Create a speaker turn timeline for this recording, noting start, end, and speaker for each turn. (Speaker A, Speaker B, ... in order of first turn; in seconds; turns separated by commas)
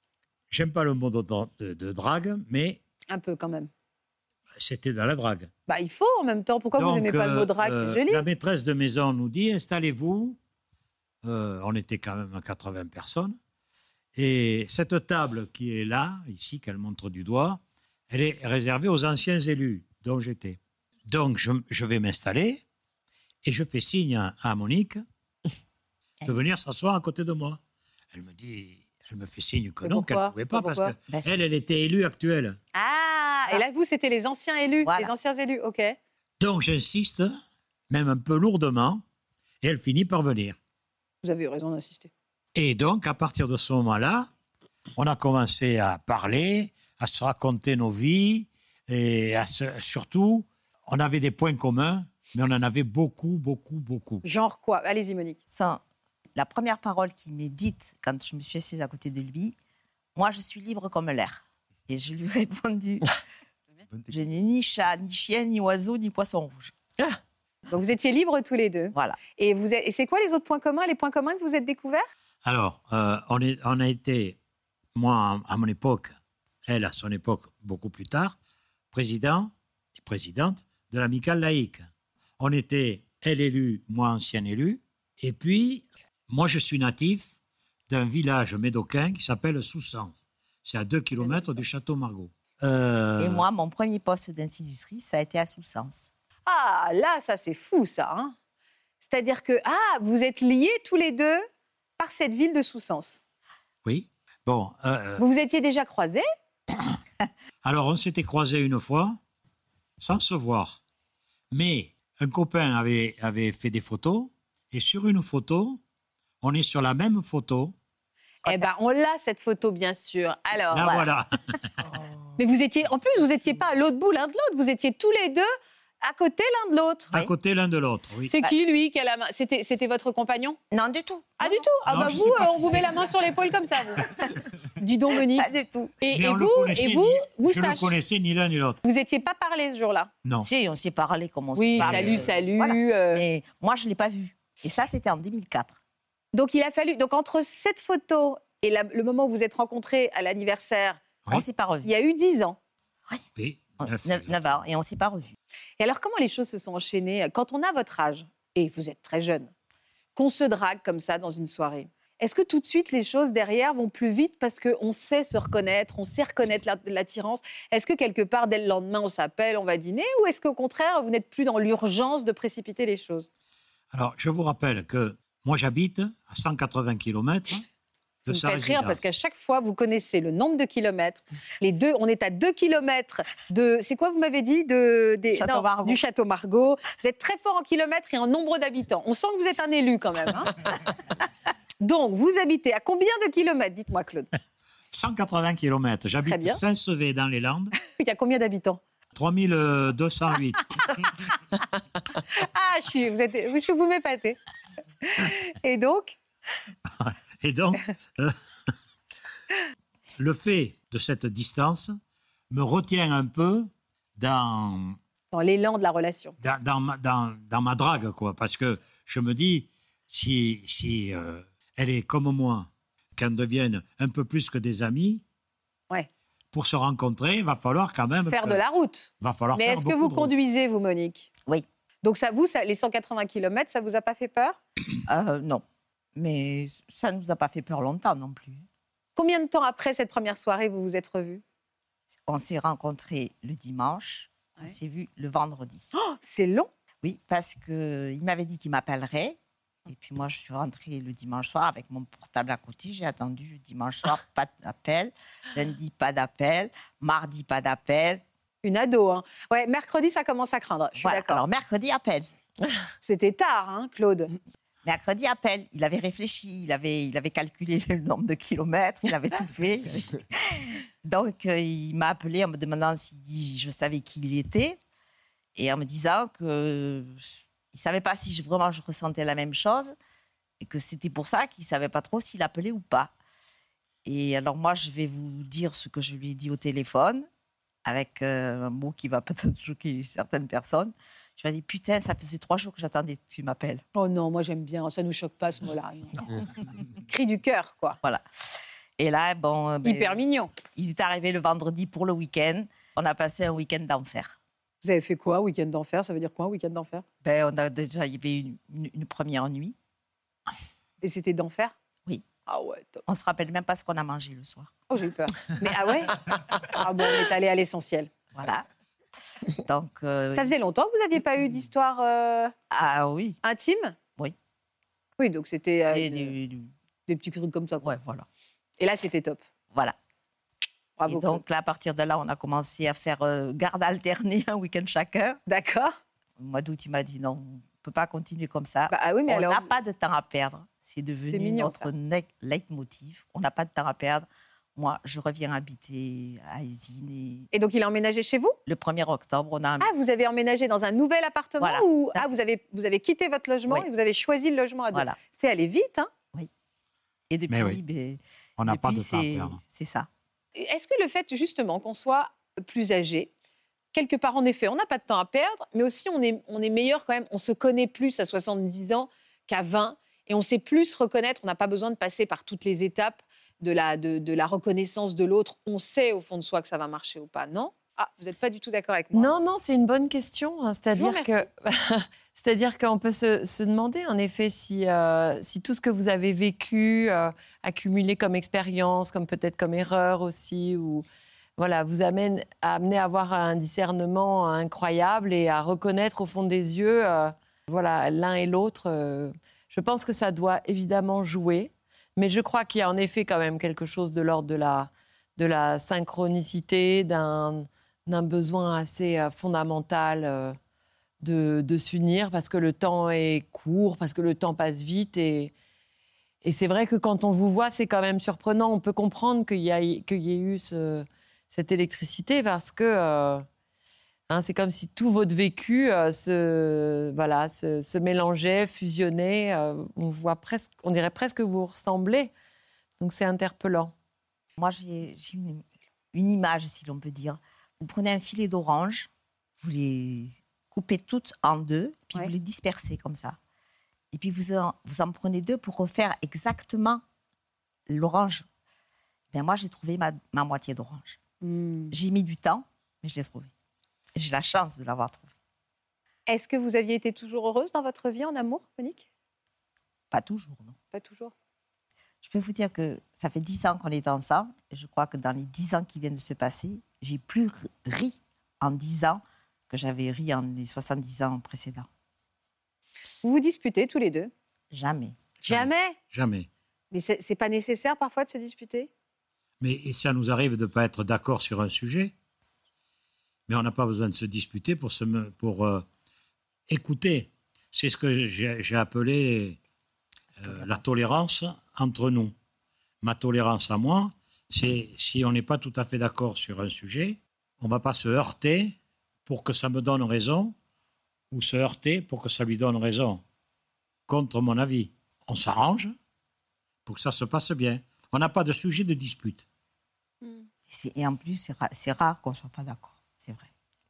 Speaker A: 0.5-2.8, Speaker B: 3.1-3.7, Speaker A: 4.6-5.5, Speaker B: 5.7-8.3, Speaker A: 6.8-10.4, Speaker A: 11.2-13.4, Speaker A: 14.2-22.6, Speaker A: 23.4-25.0, Speaker A: 26.3-27.6, Speaker A: 28.1-32.6, Speaker B: 29.8-30.9, Speaker C: 31.1-31.4, Speaker B: 32.8-36.0, Speaker C: 34.9-35.1, Speaker A: 36.4-37.3, Speaker A: 37.9-39.0, Speaker A: 39.6-40.6, Speaker B: 41.2-42.1, Speaker A: 42.5-44.3, Speaker A: 45.0-54.3, Speaker B: 54.2-55.4, Speaker C: 55.5-55.8, Speaker C: 56.4-59.5, Speaker C: 60.2-63.1, Speaker C: 64.1-66.7, Speaker B: 67.7-72.1, Speaker C: 68.9-69.2, Speaker A: 72.4-74.4, Speaker A: 75.0-78.4, Speaker A: 78.9-81.9, Speaker A: 82.4-87.3, Speaker A: 87.9-93.5, Speaker B: 91.2-91.6, Speaker C: 93.2-96.1, Speaker B: 96.5-98.3, Speaker B: 99.0-101.4, Speaker B: 102.0-103.2, Speaker A: 103.8-105.2, Speaker B: 105.2-106.2, Speaker A: 107.6-109.2, Speaker A: 110.0-110.8, Speaker A: 111.5-115.8, Speaker A: 116.4-117.8, Speaker B: 118.5-120.9, Speaker A: 120.7-121.3, Speaker B: 122.4-125.5, Speaker B: 126.0-127.1, Speaker A: 127.1-128.3, Speaker B: 128.3-130.6, Speaker C: 130.7-131.7, Speaker B: 131.4-134.0, Speaker A: 131.8-133.0, Speaker B: 134.8-135.5, Speaker C: 135.3-136.0, Speaker B: 136.0-137.9, Speaker A: 136.1-138.8, Speaker B: 138.8-140.1, Speaker C: 140.4-145.8, Speaker B: 141.6-143.2, Speaker A: 141.8-142.3, Speaker B: 146.3-151.1, Speaker C: 151.3-151.9, Speaker B: 151.8-152.6, Speaker A: 153.4-154.5, Speaker C: 153.8-155.3, Speaker B: 155.8-159.5, Speaker B: 160.2-173.3, Speaker A: 173.9-177.6, Speaker A: 178.3-179.1, Speaker B: 178.3-190.7, Speaker C: 185.3-186.0, Speaker B: 191.8-194.3, Speaker A: 194.9-197.8, Speaker B: 196.2-196.6, Speaker B: 197.8-198.8, Speaker A: 199.2-201.1, Speaker B: 202.2-204.4, Speaker B: 205.0-206.2, Speaker A: 207.0-208.3, Speaker A: 210.2-211.9, Speaker A: 212.5-215.0, Speaker B: 215.3-216.3, Speaker A: 216.4-225.2, Speaker A: 226.5-228.6, Speaker B: 228.3-231.3, Speaker A: 229.2-230.3, Speaker B: 232.0-234.6, Speaker C: 235.1-235.6, Speaker C: 236.2-238.6, Speaker B: 239.2-241.4, Speaker C: 242.3-245.9, Speaker B: 245.9-246.7, Speaker C: 247.0-258.2, Speaker B: 258.6-261.4, Speaker C: 261.0-262.3, Speaker B: 263.0-264.3, Speaker C: 264.8-274.8, Speaker C: 275.6-280.0, Speaker C: 280.6-283.1, Speaker C: 284.1-287.3, Speaker C: 287.9-293.8, Speaker B: 293.9-298.0, Speaker C: 299.0-304.4, Speaker B: 299.8-300.6, Speaker B: 304.8-307.0, Speaker C: 307.2-309.8, Speaker B: 311.0-311.7, Speaker B: 312.4-313.0, Speaker C: 313.1-314.7, Speaker B: 314.9-318.1, Speaker C: 318.3-318.6, Speaker C: 319.5-320.6, Speaker B: 320.3-322.5, Speaker C: 322.7-323.4, Speaker B: 323.4-324.0, Speaker B: 325.2-326.3, Speaker C: 325.9-326.7, Speaker B: 327.1-327.9, Speaker C: 327.8-328.3, Speaker B: 328.8-329.4, Speaker B: 331.0-331.4, Speaker C: 331.1-335.4, Speaker B: 335.5-335.9, Speaker C: 336.4-347.5, Speaker B: 338.9-339.7, Speaker B: 341.3-341.9, Speaker B: 347.5-348.6, Speaker C: 348.7-349.9, Speaker B: 349.8-356.1, Speaker C: 351.6-352.3, Speaker C: 354.9-355.2, Speaker C: 357.3-360.1, Speaker A: 357.5-357.8, Speaker A: 358.6-359.6, Speaker B: 360.6-363.3, Speaker B: 363.9-379.3, Speaker D: 379.1-391.1, Speaker B: 380.9-381.4, Speaker D: 391.6-410.6, Speaker D: 411.2-415.5, Speaker D: 416.4-423.4, Speaker D: 424.3-432.3, Speaker D: 433.0-433.9, Speaker C: 434.6-443.4, Speaker C: 444.1-447.0, Speaker C: 447.9-448.4, Speaker C: 449.3-451.2, Speaker B: 451.4-451.9, Speaker C: 451.9-453.5, Speaker C: 454.2-455.3, Speaker B: 456.3-459.1, Speaker C: 460.1-460.8, Speaker B: 460.9-461.3, Speaker C: 462.2-471.9, Speaker B: 473.2-474.3, Speaker C: 474.7-475.2, Speaker B: 475.4-476.0, Speaker A: 475.5-476.5, Speaker B: 476.9-478.9, Speaker A: 479.6-482.1, Speaker A: 483.5-485.9, Speaker A: 486.7-489.6, Speaker A: 490.4-492.4, Speaker A: 493.0-498.8, Speaker A: 499.3-500.6, Speaker A: 501.3-503.2, Speaker A: 504.1-505.9, Speaker A: 506.9-509.4, Speaker C: 510.7-513.5